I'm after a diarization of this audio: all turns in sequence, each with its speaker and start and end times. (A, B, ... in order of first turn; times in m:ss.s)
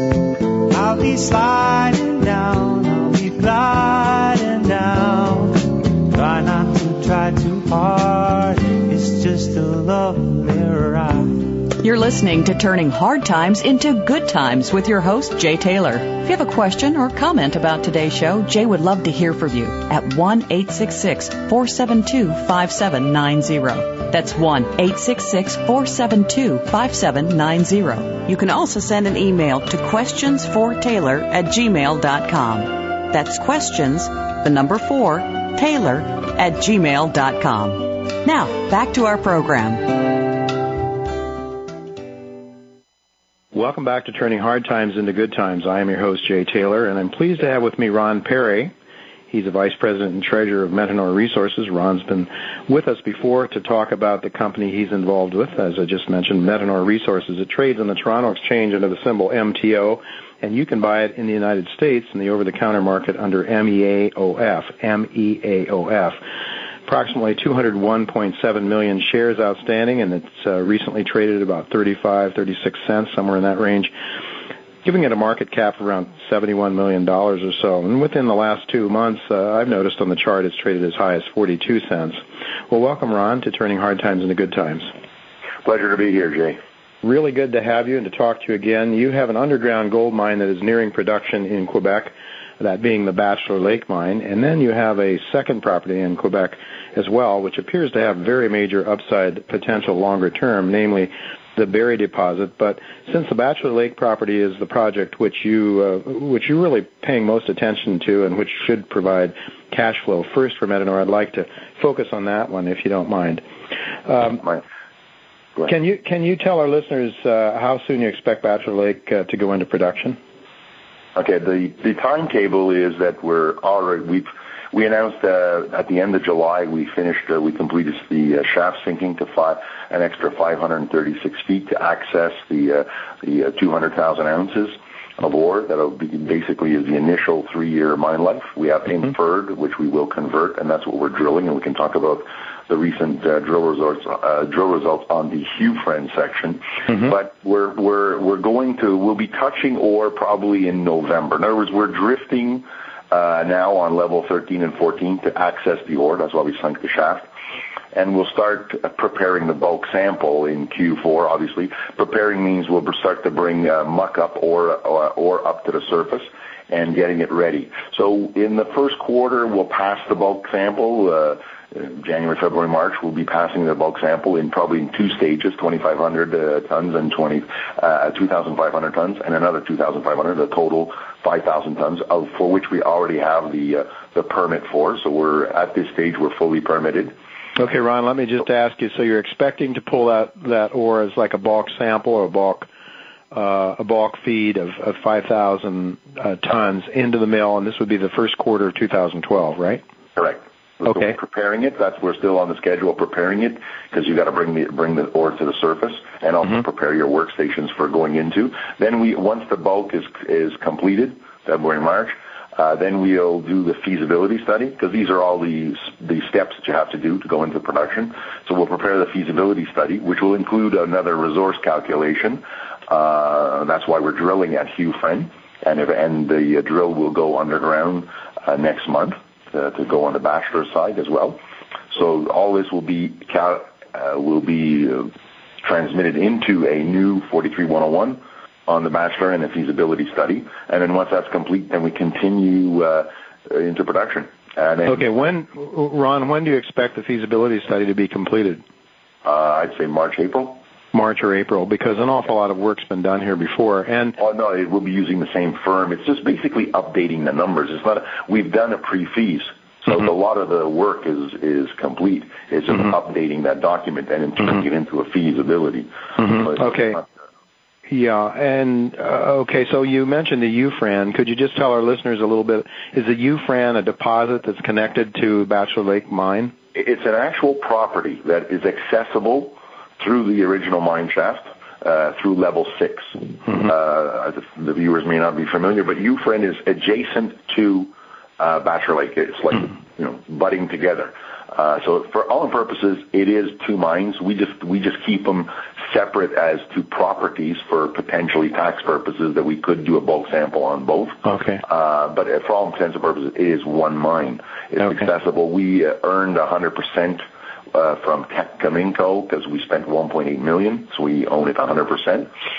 0:00.7-0:11.5 A
0:11.8-0:40.6 B
0:43.5-0:48.7 C
0:49.3-1:06.2 C
1:06.8-1:13.9 C
1:14.8-1:24.9 C
1:25.6-1:26.6 D
1:27.0-1:53.4 C
1:54.1-1:54.4 C
1:55.7-2:00.2 C
2:01.2-2:37.3 D
2:37.9-3:07.1 D
3:07.6-3:12.7 C
3:13.3-3:19.8 C
3:20.2-3:51.4 D
3:51.9-3:55.1 D
3:55.6-4:05.0 D
4:04.9-4:08.6 C
4:09.2-4:10.6 D
4:10.9-4:14.2 C
4:14.2-4:27.0 D
4:26.2-4:27.0 C
4:27.9-4:36.5 C
4:36.7-5:12.3 D
5:01.2-5:01.6 C